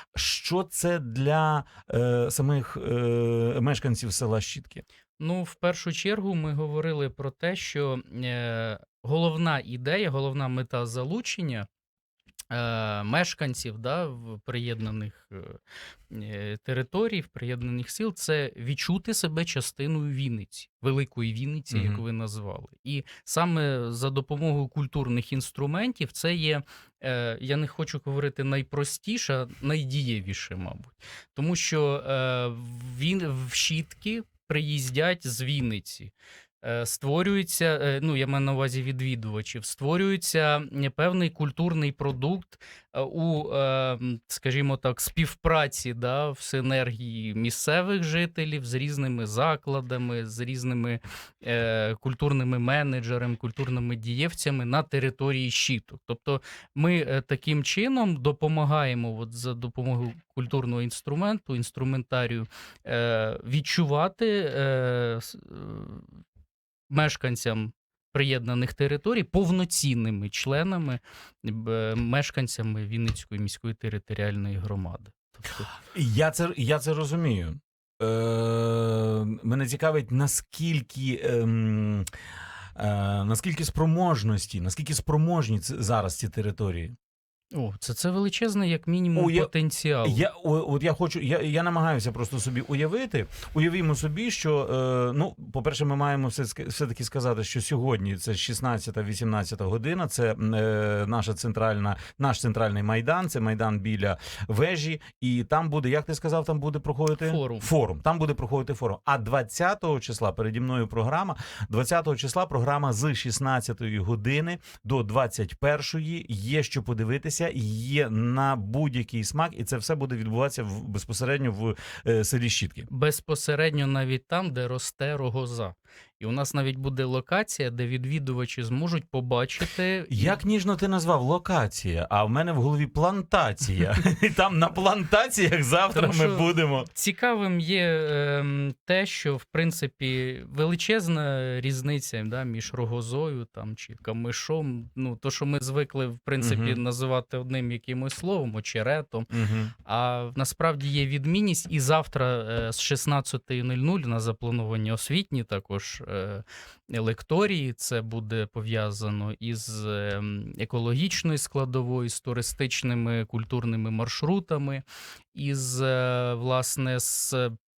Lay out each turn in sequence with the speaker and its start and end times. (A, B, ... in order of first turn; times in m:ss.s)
0:00.2-0:04.8 A
0:05.2-0:11.7 B
0:12.5-0:15.6 B
0:16.1-1:06.1 B
0:21.7-0:22.0 A
1:06.9-1:15.7 B
1:15.9-1:22.1 A
1:22.8-1:26.9 A
1:27.5-1:30.2 B
1:29.2-1:29.5 A
1:30.0-2:02.9 A
1:47.2-1:47.7 B
2:02.9-2:10.4 B
2:10.1-2:16.9 A
2:15.9-2:29.3 B
2:26.4-2:26.8 A
2:29.3-2:29.7 A
2:29.9-2:47.5 B